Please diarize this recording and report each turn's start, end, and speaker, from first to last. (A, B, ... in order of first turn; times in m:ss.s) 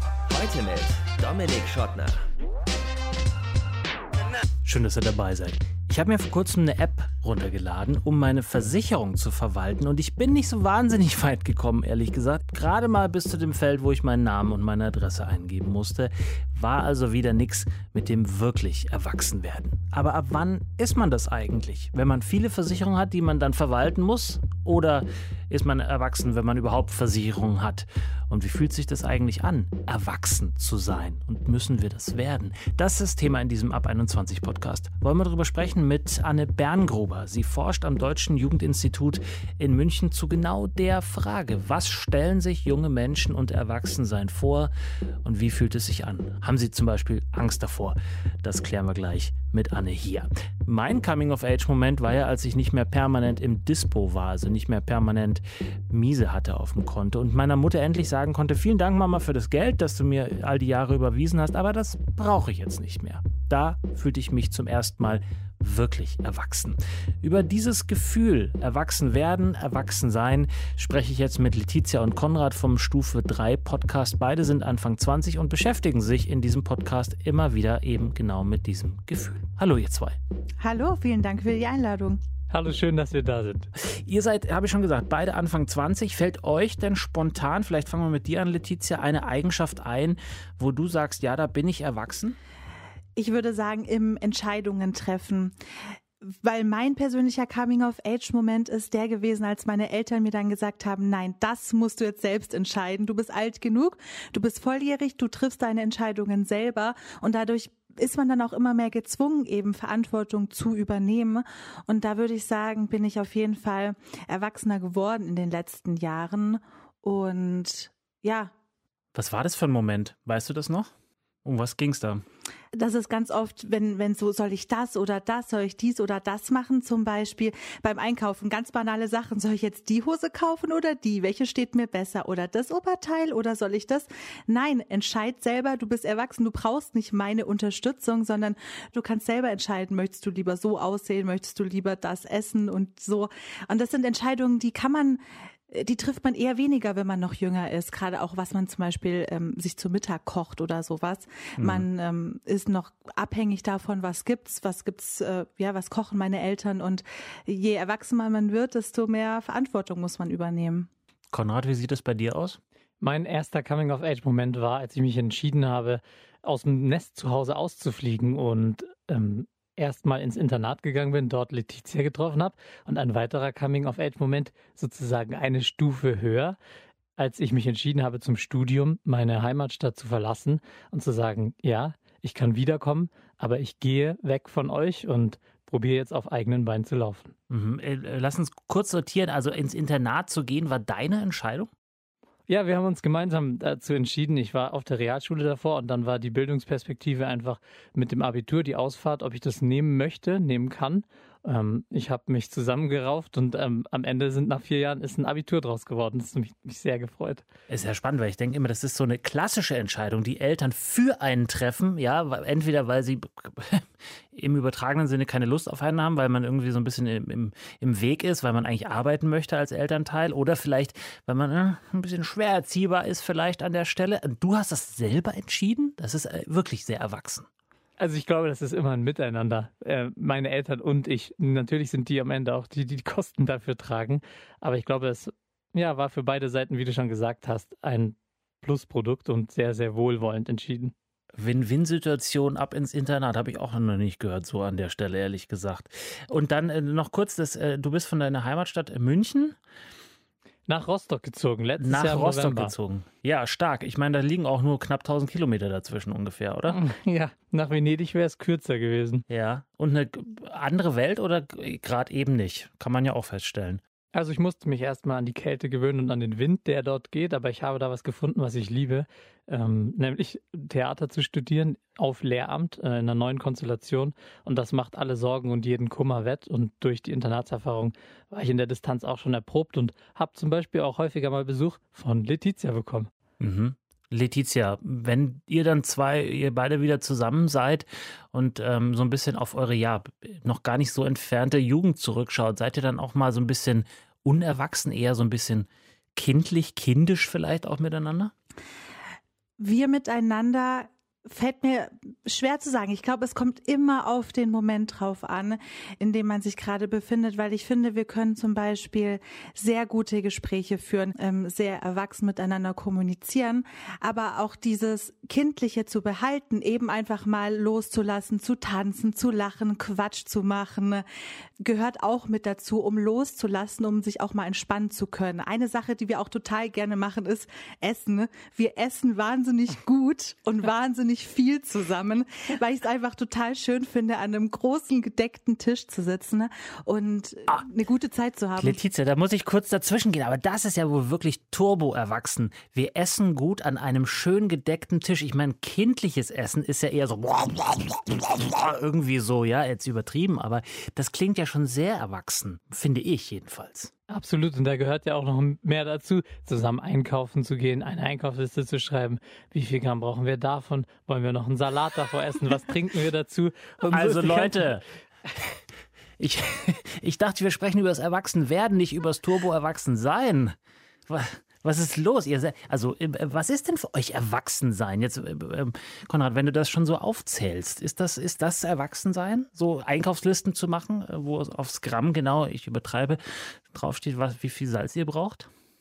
0:00.3-0:02.2 A
0:04.6-0:44.7 B
0:45.2-1:20.2 B
1:20.6-1:22.2 C
1:22.5-1:23.7 D
1:23.8-1:32.4 B
1:33.2-1:35.5 C
1:36.2-1:58.5 C
1:59.1-2:00.9 B
2:01.4-2:02.2 B
2:02.7-2:40.9 C
2:31.6-2:31.8 B
2:41.3-2:42.6 B
2:43.0-2:56.6 D
2:57.2-3:07.3 D
3:07.5-3:11.7 B
3:12.5-3:27.4 D
3:27.7-3:47.5 B
3:48.0-4:00.9 D
4:01.4-4:09.6 B
4:10.7-4:12.7 D
4:11.8-4:16.8 B
4:16.7-4:19.2 D
4:19.3-4:23.8 B
4:24.1-4:43.1 D
4:43.4-4:58.3 B
4:59.6-5:21.0 C
5:21.6-5:38.8 C
5:38.6-5:53.9 B
5:54.1-6:04.7 D
6:03.9-6:04.8 B
6:06.2-6:10.6 B
6:11.1-6:25.5 B